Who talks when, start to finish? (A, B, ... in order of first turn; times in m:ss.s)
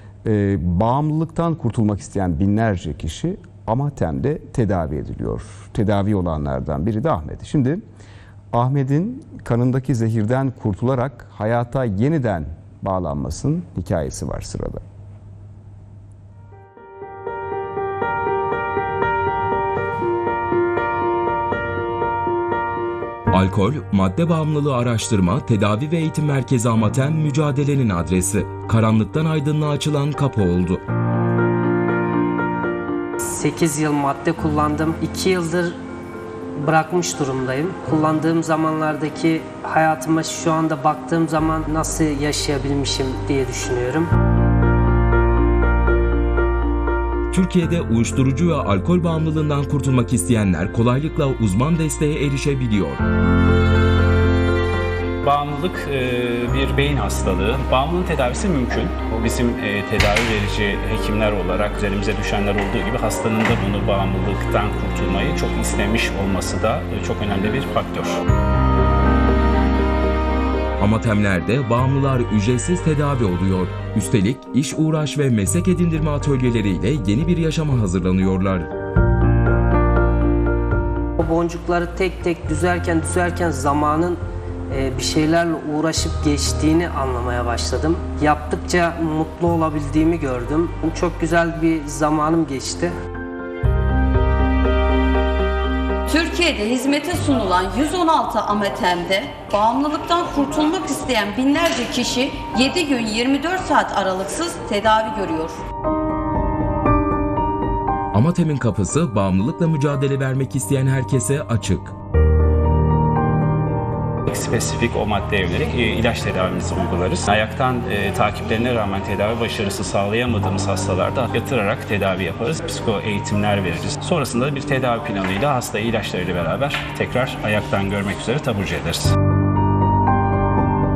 0:00.2-0:07.8 A
0:08.5-0:14.8 A
0:23.3-0:30.8 B
0:33.2-0:35.8 C
0:36.6-0:44.1 C
0:47.3-0:53.0 B
0:55.2-1:08.2 D
1:10.8-1:18.7 B
1:21.2-1:32.9 C
1:36.1-1:45.6 E
1:48.1-1:52.0 B
1:54.3-2:09.2 D